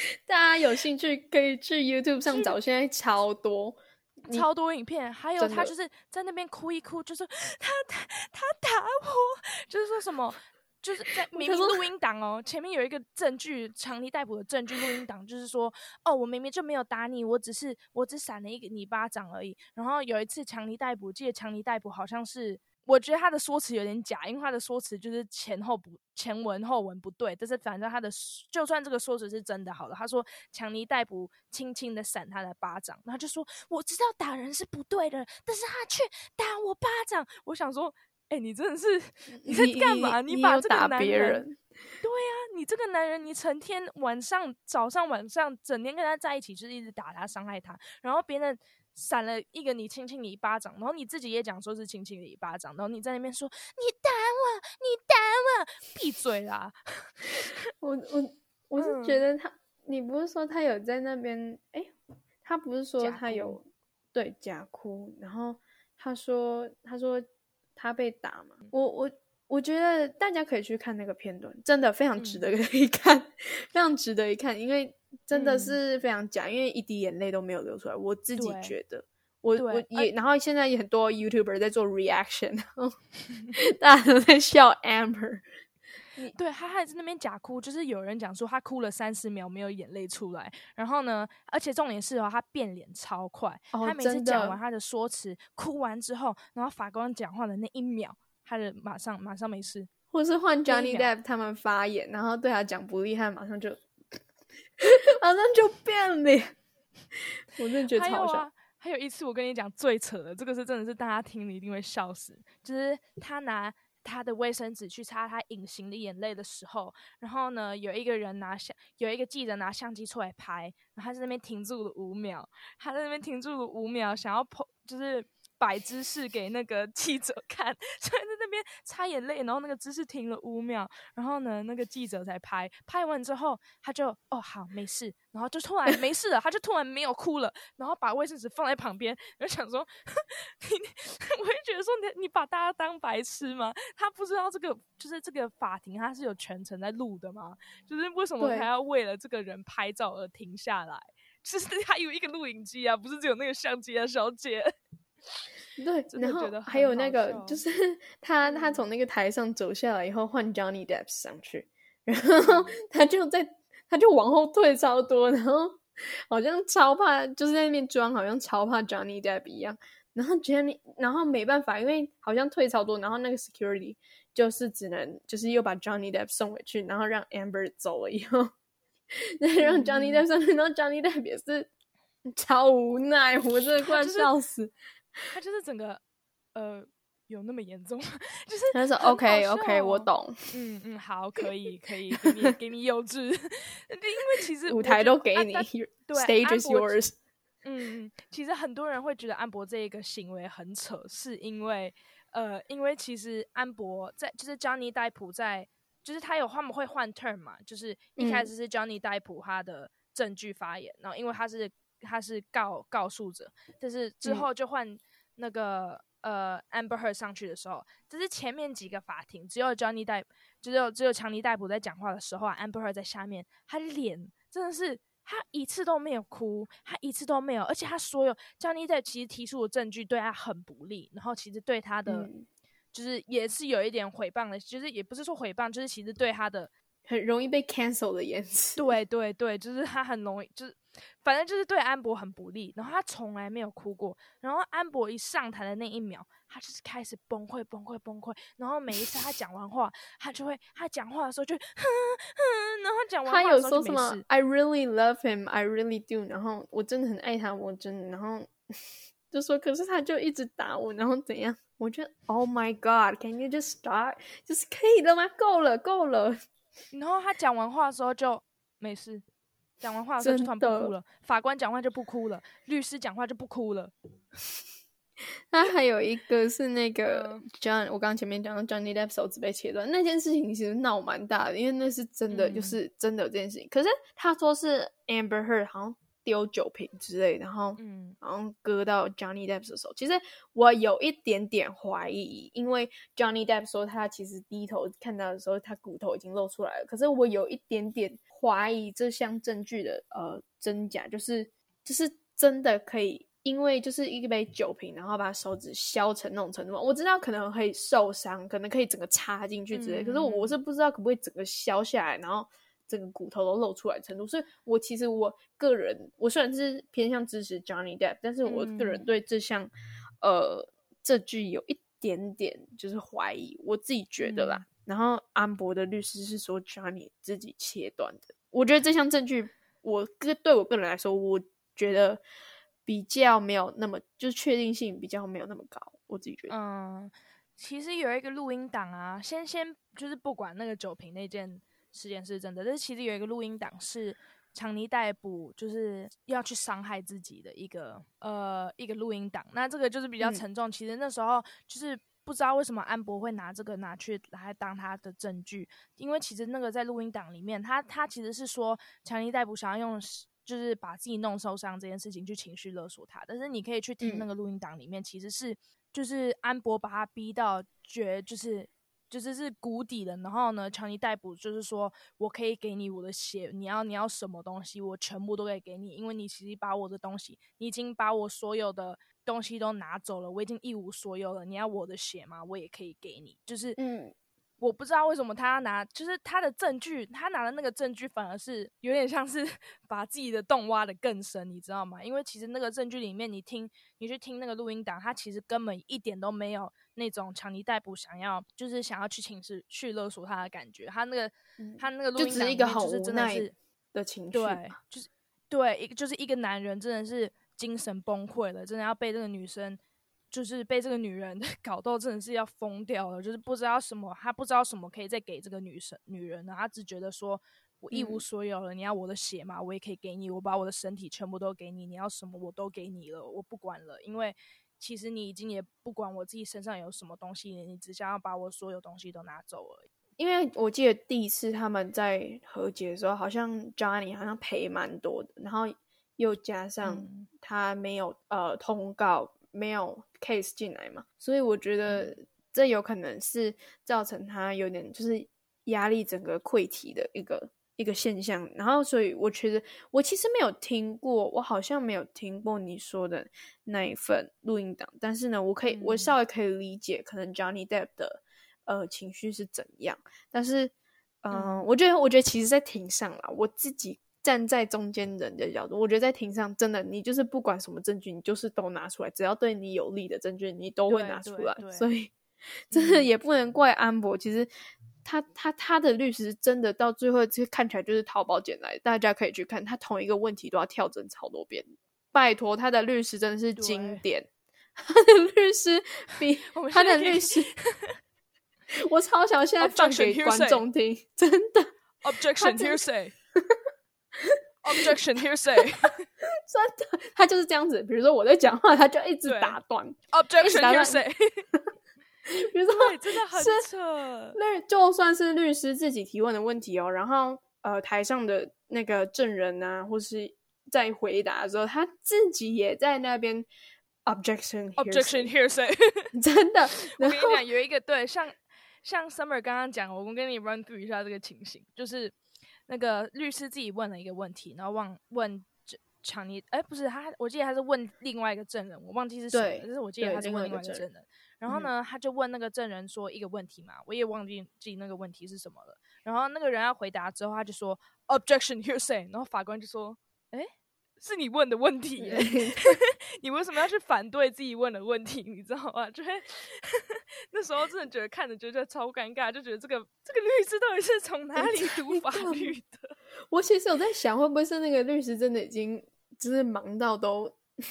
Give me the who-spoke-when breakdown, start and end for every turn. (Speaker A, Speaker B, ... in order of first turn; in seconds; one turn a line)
Speaker A: 0.3-4.5
Speaker B: 2.2-2.5
Speaker B: 4.3-41.4
Speaker A: 5.4-5.7
Speaker A: 11.3-11.8
Speaker A: 39.4-41.6
Speaker B: 42.0-57.5
Speaker A: 57.8-83.0
Speaker B: 58.8-59.2
Speaker B: 63.0-63.6
Speaker B: 72.2-72.5
Speaker B: 75.3-75.8
Speaker B: 78.4-78.8
Speaker B: 79.6-80.1
Speaker A: 83.5-85.4
Speaker B: 86.3-99.9
Speaker A: 93.7-94.6
Speaker A: 100.1-103.8
Speaker B: 100.7-101.1
Speaker A: 104.8-106.5
Speaker A: 107.5-108.5
Speaker B: 107.9-154.7
Speaker A: 148.4-148.7
Speaker A: 155.8-178.5
Speaker B: 156.1-157.6
Speaker B: 158.4-158.9
Speaker B: 162.4-162.8
Speaker A: 179.4-181.7
Speaker B: 179.6-180.2
Speaker A: 182.2-184.7
Speaker B: 183.5-184.3
Speaker B: 185.3-186.0
Speaker B: 186.5-197.0
Speaker A: 188.7-190.5
Speaker A: 192.1-192.5
Speaker A: 194.7-197.1
Speaker B: 197.6-232.3
Speaker A: 208.2-208.5
Speaker A: 232.1-232.5
Speaker B: 232.9-236.7
Speaker A: 237.1-239.0
Speaker B: 238.8-254.2
Speaker A: 253.2-258.5
Speaker A: 259.3-266.4
Speaker B: 266.9-269.2
Speaker B: 269.8-273.9
Speaker A: 270.2-270.9
Speaker A: 275.5-319.7
Speaker B: 277.1-277.4
Speaker B: 282.3-282.8
Speaker B: 287.8-288.2
Speaker B: 309.7-310.6
Speaker B: 318.4-319.0
Speaker A: 320.2-332.2
Speaker B: 324.2-324.6
Speaker A: 332.8-336.5
Speaker B: 336.5-383.8
Speaker A: 364.0-364.3
Speaker A: 383.8-384.1
Speaker B: 384.6-403.5
Speaker A: 401.6-404.8
Speaker B: 404.3-409.8
Speaker B: 410.3-429.9
Speaker A: 417.9-418.2
Speaker A: 430.2-460.7
Speaker B: 436.8-437.3
Speaker B: 441.9-442.1
Speaker B: 455.7-456.1
Speaker A: 461.2-472.1
Speaker B: 461.3-461.7
Speaker B: 470.9-471.9
Speaker A: 472.7-474.5
Speaker B: 472.7-473.1
Speaker A: 475.0-487.5
Speaker B: 483.6-484.0
Speaker B: 486.4-488.0
Speaker A: 488.8-491.7
Speaker B: 489.6-490.6
Speaker B: 492.0-493.1
Speaker A: 492.3-493.6
Speaker A: 494.2-494.9
Speaker B: 494.6-496.0
Speaker A: 496.5-501.0
Speaker B: 499.2-499.6
Speaker B: 500.1-501.4
Speaker A: 502.3-503.7
Speaker B: 502.7-504.4
Speaker A: 504.3-513.5
Speaker A: 514.0-515.3
Speaker B: 514.8-516.1
Speaker A: 516.1-517.4
Speaker B: 516.9-522.1
Speaker B: 522.7-552.9
Speaker A: 529.3-530.8
Speaker A: 542.0-542.8
Speaker A: 551.4-552.5
Speaker A: 553.3-557.4